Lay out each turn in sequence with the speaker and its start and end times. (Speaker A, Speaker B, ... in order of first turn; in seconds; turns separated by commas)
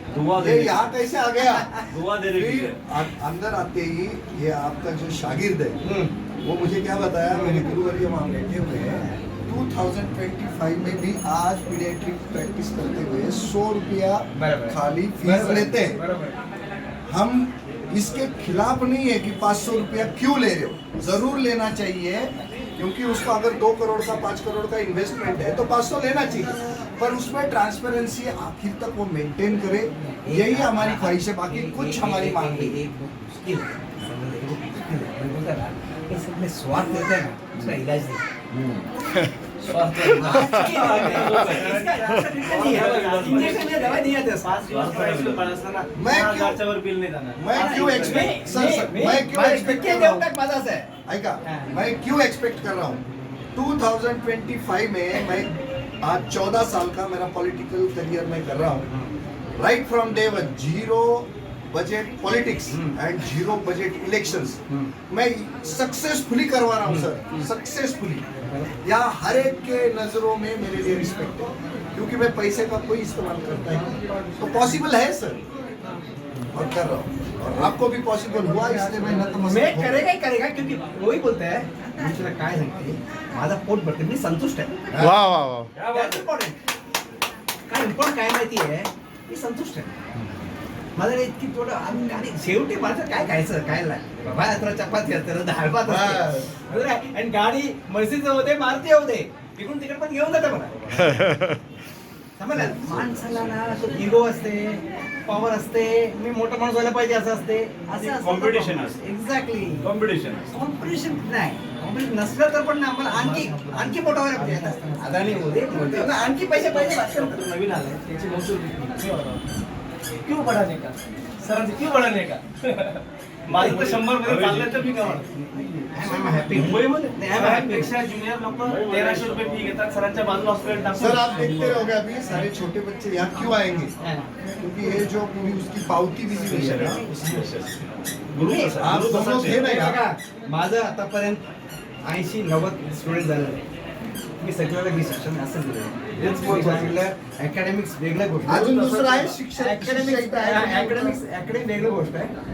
Speaker A: 0.1-0.9, Speaker B: 0.4-5.8, Speaker C: 1.4-1.9, Speaker A: 1.9-2.8, Speaker C: 5.8-6.1, Speaker B: 6.4-16.0, Speaker C: 7.3-7.7, Speaker C: 14.4-16.4, Speaker B: 17.1-32.8, Speaker C: 30.2-38.2, Speaker C: 39.6-45.3, Speaker D: 39.9-49.2, Speaker A: 42.7-43.7, Speaker B: 46.0-46.6, Speaker B: 47.4-50.2, Speaker C: 47.5-50.9, Speaker B: 51.1-53.0, Speaker C: 51.5-51.8, Speaker B: 53.5-58.9, Speaker B: 59.6-68.3, Speaker C: 62.7-63.0, Speaker C: 66.9-67.5, Speaker B: 68.8-75.4, Speaker B: 76.5-80.1, Speaker C: 79.4-85.3, Speaker B: 84.9-85.5, Speaker A: 85.7-86.3, Speaker C: 85.9-86.6, Speaker C: 87.7-90.0, Speaker C: 91.0-101.3, Speaker B: 95.8-96.5, Speaker C: 102.4-109.9, Speaker B: 102.6-103.0, Speaker A: 108.0-109.0, Speaker A: 109.8-110.5, Speaker C: 110.5-117.4, Speaker D: 113.1-119.5, Speaker D: 120.2-125.3, Speaker C: 123.5-127.9, Speaker D: 126.0-131.5, Speaker B: 130.9-133.9, Speaker C: 134.0-134.3, Speaker B: 134.6-137.1, Speaker C: 136.5-137.4, Speaker A: 136.5-139.6, Speaker C: 138.4-141.4, Speaker B: 138.8-140.0, Speaker C: 142.0-143.6, Speaker C: 144.4-152.3, Speaker B: 146.2-146.9, Speaker B: 148.5-151.2